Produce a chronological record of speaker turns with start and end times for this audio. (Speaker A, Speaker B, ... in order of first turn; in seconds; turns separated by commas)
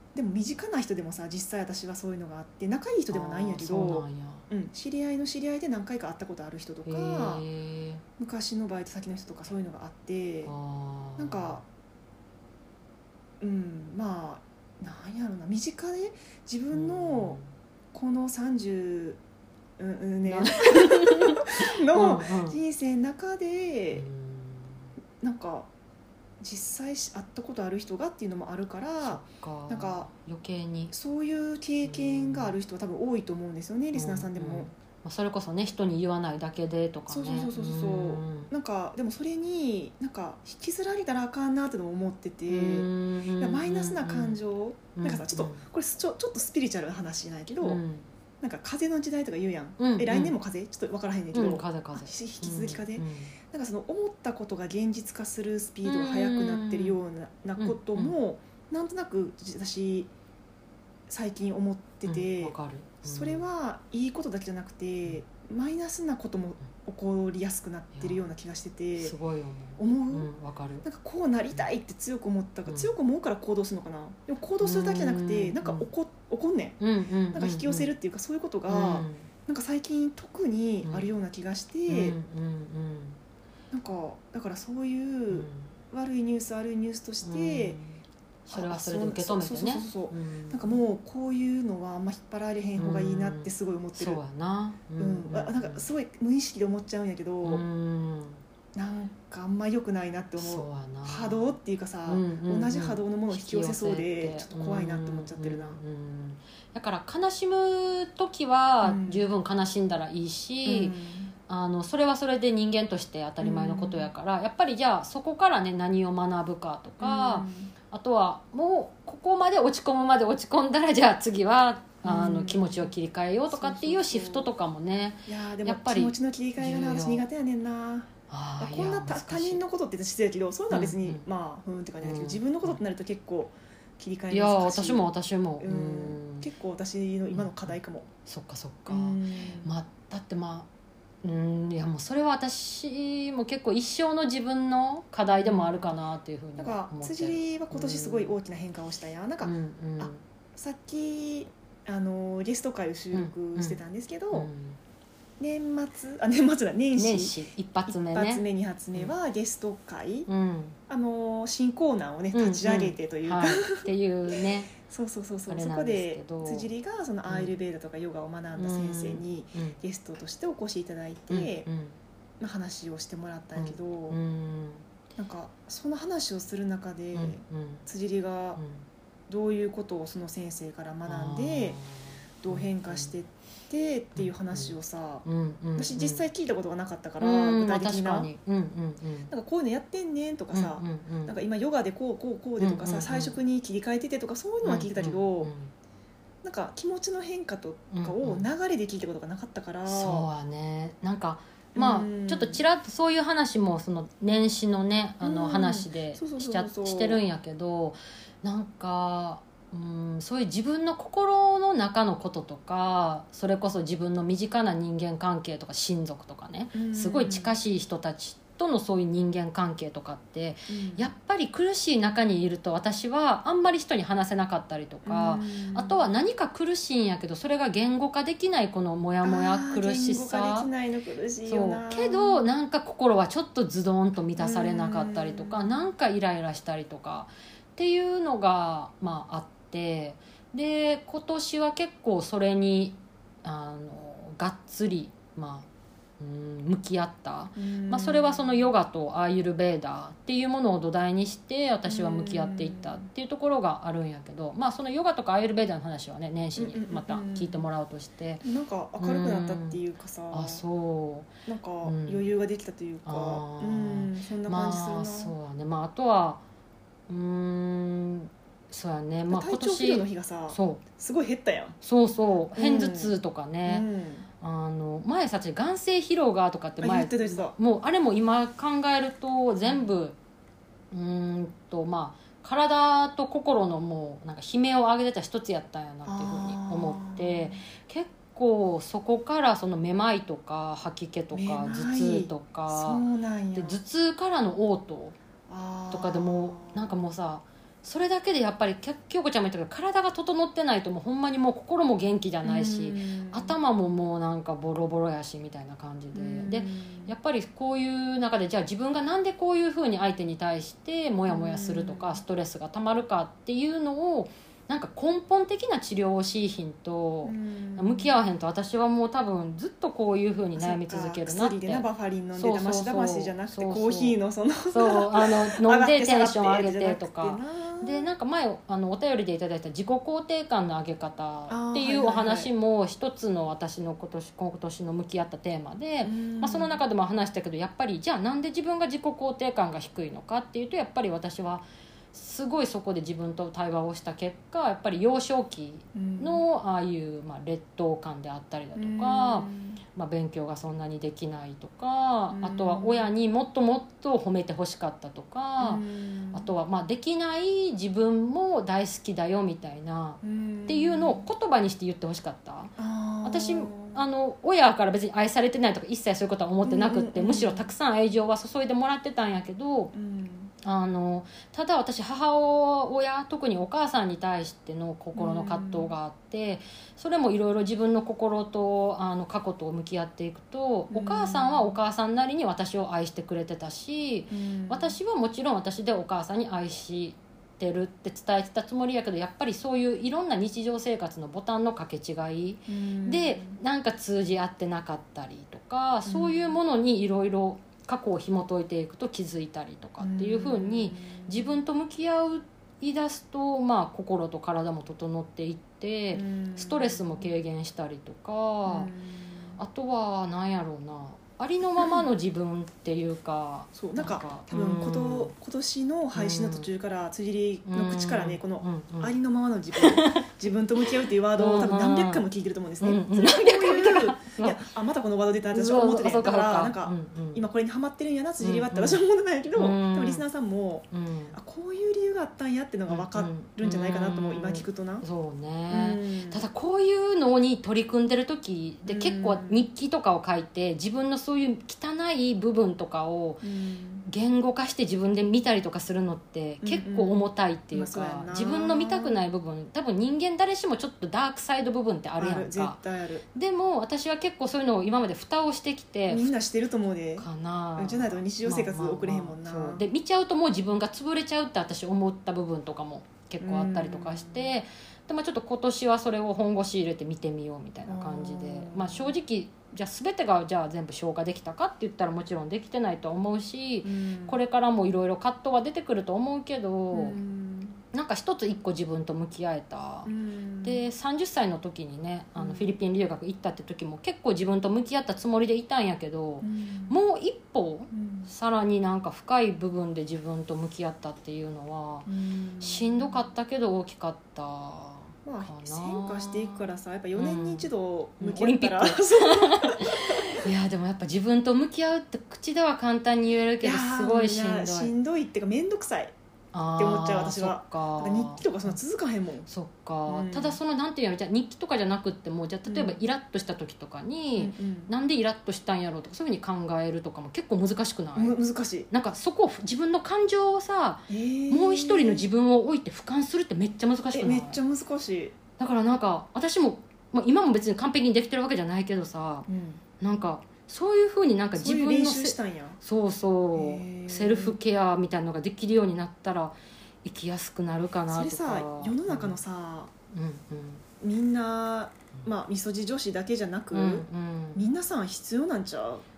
Speaker A: 0.1-7.5, Speaker B: 3.1-4.5, Speaker B: 6.9-8.0, Speaker A: 8.2-10.5, Speaker B: 10.4-11.6, Speaker A: 11.2-11.6, Speaker A: 13.4-17.4, Speaker B: 16.7-17.5, Speaker A: 17.9-19.2, Speaker A: 19.8-24.1, Speaker B: 20.2-22.6, Speaker B: 23.9-24.9, Speaker A: 25.2-25.7, Speaker A: 26.4-30.1, Speaker B: 29.0-30.9, Speaker A: 30.9-34.7, Speaker B: 31.8-32.6, Speaker B: 33.9-38.5, Speaker A: 37.1-47.8, Speaker B: 42.5-44.4, Speaker B: 45.0-45.6, Speaker B: 47.6-48.1, Speaker A: 48.4-60.1, Speaker B: 49.8-50.4, Speaker B: 51.3-53.3, Speaker B: 55.8-57.0, Speaker B: 57.6-58.2, Speaker A: 61.1-69.2, Speaker B: 62.0-63.5, Speaker B: 68.0-68.2, Speaker B: 69.0-70.8, Speaker A: 69.8-70.3, Speaker A: 70.8-76.8, Speaker B: 72.7-72.9, Speaker B: 74.6-75.9, Speaker B: 76.8-77.9, Speaker A: 77.3-82.2, Speaker B: 78.7-79.3, Speaker B: 80.8-81.1, Speaker B: 81.9-83.2, Speaker A: 83.7-87.8, Speaker B: 85.3-85.8, Speaker B: 87.2-90.8, Speaker A: 88.5-94.2, Speaker B: 92.8-95.9, Speaker A: 95.0-97.7, Speaker B: 97.4-98.4, Speaker A: 98.7-105.8, Speaker B: 100.4-111.0, Speaker A: 108.8-109.3, Speaker A: 110.7-111.3, Speaker B: 111.5-127.3, Speaker A: 113.4-114.1, Speaker A: 117.0-117.7, Speaker A: 122.0-122.9, Speaker A: 123.5-124.5, Speaker A: 125.3-135.1, Speaker B: 128.3-129.6, Speaker B: 130.7-131.2, Speaker B: 132.0-132.8, Speaker B: 134.3-136.5, Speaker A: 135.6-138.1, Speaker B: 137.3-140.7, Speaker A: 138.9-139.7, Speaker B: 141.2-148.3, Speaker A: 145.3-145.9, Speaker A: 146.6-154.5, Speaker B: 149.4-150.2, Speaker B: 153.1-153.8, Speaker B: 154.3-154.8, Speaker A: 155.4-160.3, Speaker B: 157.0-159.1, Speaker B: 160.3-160.8, Speaker A: 160.9-171.7, Speaker B: 162.3-164.7, Speaker B: 165.5-166.7, Speaker B: 167.3-167.5, Speaker B: 168.6-169.8, Speaker B: 171.3-172.0, Speaker A: 172.4-174.2, Speaker B: 173.6-174.9, Speaker A: 175.2-178.6, Speaker B: 177.1-177.9, Speaker B: 178.6-178.9, Speaker A: 179.3-181.8, Speaker B: 181.1-183.1, Speaker A: 182.4-185.2, Speaker B: 184.2-186.2, Speaker A: 185.8-188.3, Speaker B: 187.2-189.3, Speaker A: 189.3-195.5, Speaker B: 190.5-191.4, Speaker B: 192.6-193.4, Speaker B: 194.6-195.7, Speaker A: 196.4-200.3, Speaker B: 197.9-198.5, Speaker B: 199.9-230.7, Speaker A: 201.8-202.6, Speaker A: 205.2-207.2, Speaker A: 216.7-217.6, Speaker A: 220.7-221.1, Speaker A: 225.1-226.0, Speaker A: 229.2-232.4, Speaker B: 231.4-245.7, Speaker A: 234.4-235.8, Speaker B: 246.2-258.4, Speaker A: 247.6-248.7, Speaker A: 251.8-253.1, Speaker A: 256.6-257.7, Speaker A: 258.4-260.6, Speaker B: 259.0-259.8, Speaker B: 260.3-262.2, Speaker A: 261.5-265.3, Speaker B: 263.1-266.4, Speaker B: 267.1-270.8, Speaker A: 269.3-271.8, Speaker B: 271.8-273.9, Speaker A: 272.5-274.3, Speaker B: 274.4-280.2, Speaker A: 276.8-277.6, Speaker B: 280.9-293.0, Speaker A: 286.1-287.6, Speaker A: 291.3-293.8, Speaker B: 293.6-295.2, Speaker A: 295.5-297.0, Speaker B: 295.9-324.2, Speaker A: 302.4-303.6, Speaker A: 306.1-307.1, Speaker A: 311.3-312.2, Speaker A: 317.2-318.1, Speaker A: 320.6-328.1, Speaker B: 324.7-369.9, Speaker A: 331.5-332.5, Speaker A: 336.0-336.8, Speaker A: 345.9-346.4, Speaker A: 348.8-349.8, Speaker A: 352.3-353.1, Speaker A: 355.6-356.5, Speaker A: 360.2-361.3, Speaker A: 362.8-364.0, Speaker A: 366.6-367.7, Speaker A: 369.9-370.5, Speaker B: 370.6-408.9, Speaker A: 375.1-375.9, Speaker A: 380.9-381.8, Speaker A: 384.3-385.0, Speaker A: 392.7-393.6, Speaker A: 396.1-396.6, Speaker A: 400.0-401.6, Speaker A: 406.1-407.3, Speaker A: 408.6-409.6, Speaker B: 409.6-415.3, Speaker A: 411.8-412.1, Speaker A: 413.8-435.1, Speaker B: 416.1-416.7, Speaker B: 417.7-419.1, Speaker B: 419.7-420.3, Speaker B: 420.8-422.2, Speaker B: 422.8-424.7, Speaker B: 425.5-427.5, Speaker B: 428.4-429.0, Speaker B: 429.6-430.2, Speaker B: 430.9-431.4, Speaker B: 432.9-443.4, Speaker A: 435.7-436.4, Speaker A: 438.9-439.7, Speaker A: 443.4-444.1, Speaker B: 444.1-452.8, Speaker A: 446.6-449.2, Speaker A: 452.2-453.2, Speaker B: 453.4-456.3, Speaker A: 456.1-459.9, Speaker B: 457.2-477.2, Speaker A: 463.4-464.5, Speaker A: 467.9-469.1, Speaker A: 473.8-474.4, Speaker A: 476.9-477.8, Speaker B: 477.9-480.1, Speaker A: 480.1-480.8, Speaker B: 480.6-504.9, Speaker A: 482.4-482.8, Speaker A: 486.4-487.0, Speaker A: 487.9-488.3, Speaker A: 492.1-493.2, Speaker A: 495.2-500.5, Speaker A: 503.6-506.1, Speaker B: 506.5-508.8, Speaker A: 506.8-509.5, Speaker B: 509.5-518.4, Speaker A: 510.1-510.6, Speaker A: 512.7-513.0, Speaker A: 514.4-514.9, Speaker A: 518.1-518.9, Speaker B: 518.9-524.6, Speaker A: 521.1-522.3, Speaker A: 524.1-525.4, Speaker B: 525.6-529.5, Speaker A: 529.5-529.8, Speaker B: 530.0-539.4, Speaker A: 531.5-532.8, Speaker A: 533.5-534.6, Speaker A: 538.1-539.9, Speaker B: 540.1-540.8, Speaker A: 541.0-546.0, Speaker B: 543.7-544.6